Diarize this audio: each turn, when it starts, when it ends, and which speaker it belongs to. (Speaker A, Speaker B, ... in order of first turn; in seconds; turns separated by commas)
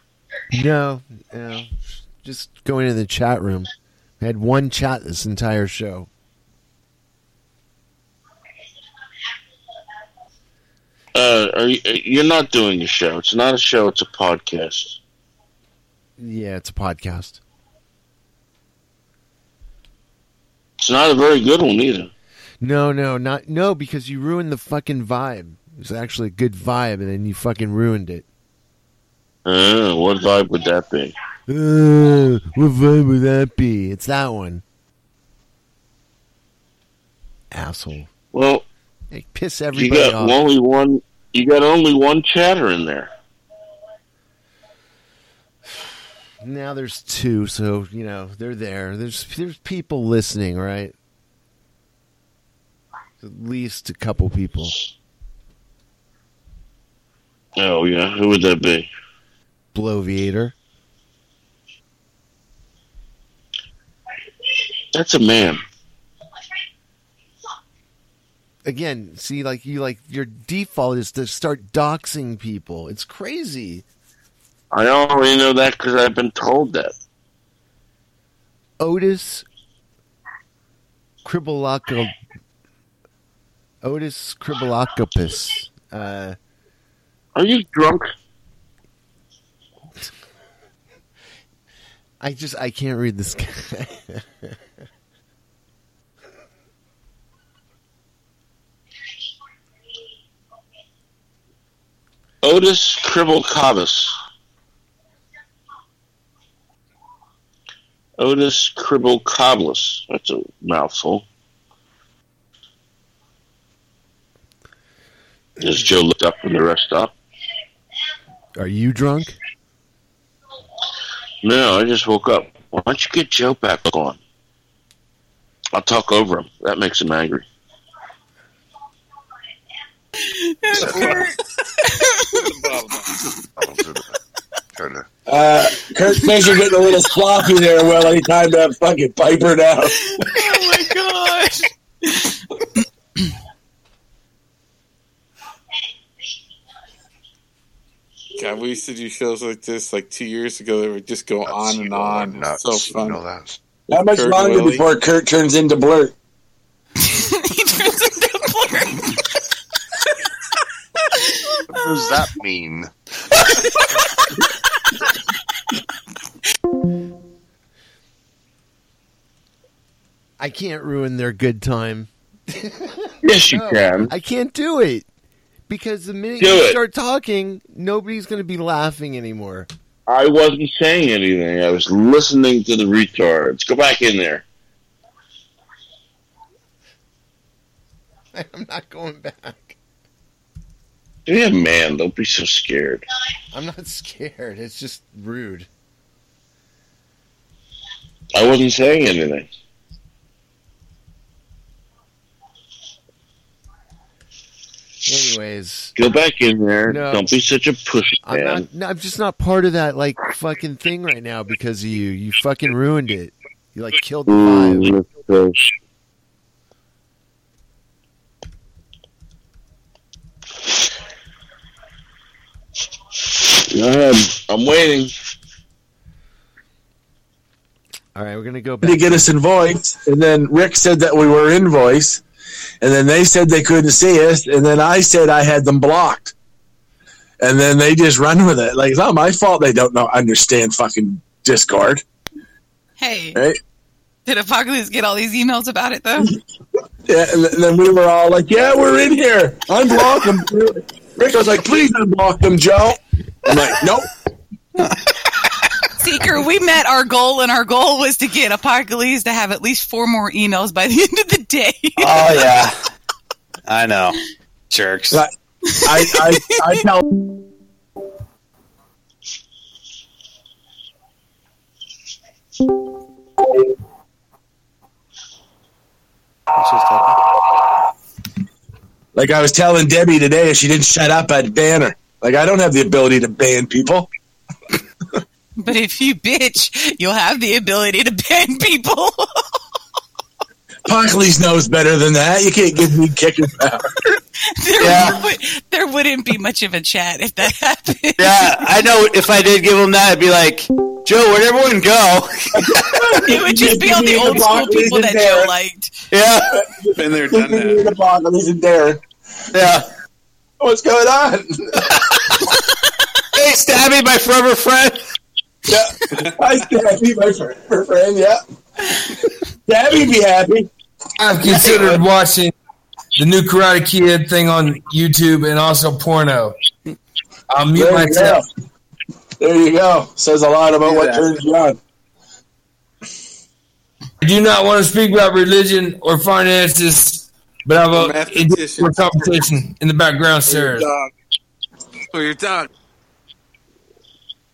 Speaker A: 0.5-6.1, Speaker B: 11.2-15.0, Speaker A: 16.2-17.4, Speaker B: 20.8-22.1, Speaker A: 22.6-28.3, Speaker B: 29.5-31.1, Speaker A: 31.5-34.6, Speaker A: 37.5-38.1, Speaker B: 38.3-38.6, Speaker A: 39.1-40.4, Speaker B: 39.7-43.1, Speaker A: 45.7-51.0, Speaker A: 53.2-54.8, Speaker B: 57.6-58.9, Speaker A: 59.7-60.5, Speaker B: 64.9-65.6, Speaker A: 68.7-73.8, Speaker B: 74.7-76.9, Speaker A: 78.8-79.5, Speaker A: 81.2-82.1, Speaker A: 83.8-86.4, Speaker B: 87.3-88.1, Speaker A: 92.2-94.6, Speaker B: 102.4-104.2, Speaker B: 108.2-111.3, Speaker B: 115.6-117.2, Speaker A: 118.6-119.4, Speaker B: 121.4-124.2, Speaker B: 125.7-127.5, Speaker C: 130.3-132.5, Speaker D: 130.7-131.3, Speaker E: 130.8-131.3, Speaker E: 132.3-133.1, Speaker D: 133.6-134.1, Speaker D: 134.8-135.1, Speaker F: 135.3-140.4, Speaker C: 140.1-142.3, Speaker E: 148.4-153.2, Speaker D: 151.5-153.6, Speaker F: 153.9-156.1, Speaker E: 154.1-154.8, Speaker C: 157.0-159.2, Speaker C: 161.2-162.2, Speaker D: 161.7-162.9, Speaker C: 163.4-164.0, Speaker A: 170.4-175.1, Speaker B: 173.2-174.1, Speaker A: 175.7-179.7, Speaker B: 176.4-176.8, Speaker B: 180.1-184.4, Speaker A: 188.3-189.8, Speaker B: 191.3-193.0, Speaker A: 193.5-195.7, Speaker B: 198.3-199.5, Speaker A: 205.1-206.0, Speaker B: 206.0-208.7, Speaker A: 206.9-207.3, Speaker A: 208.2-214.9, Speaker B: 214.3-215.7, Speaker B: 223.5-225.1, Speaker A: 228.2-229.3, Speaker F: 228.8-232.2, Speaker F: 232.8-236.3, Speaker F: 237.4-242.0, Speaker C: 243.0-243.4, Speaker C: 244.3-246.3, Speaker F: 247.1-254.1, Speaker C: 256.0-262.3, Speaker G: 262.0-262.8, Speaker G: 263.7-264.2, Speaker G: 264.7-265.3, Speaker C: 265.8-266.7, Speaker F: 265.8-267.1, Speaker G: 276.6-277.2, Speaker F: 279.1-284.1, Speaker C: 285.6-289.3, Speaker F: 290.9-293.9, Speaker C: 294.6-298.7, Speaker G: 294.8-295.2, Speaker G: 298.2-303.4, Speaker F: 302.6-305.5, Speaker C: 303.3-306.1, Speaker G: 306.1-306.6, Speaker F: 306.5-309.0, Speaker E: 306.9-307.9, Speaker G: 309.5-309.9, Speaker F: 310.6-311.8, Speaker G: 313.4-315.0, Speaker F: 315.7-318.4, Speaker F: 319.7-320.7, Speaker H: 321.2-322.5, Speaker F: 321.5-322.0, Speaker H: 323.2-326.6, Speaker H: 327.5-328.4, Speaker F: 327.8-328.4, Speaker F: 329.4-331.8, Speaker H: 334.2-340.9, Speaker E: 337.9-339.4, Speaker E: 340.5-341.1, Speaker E: 342.1-342.7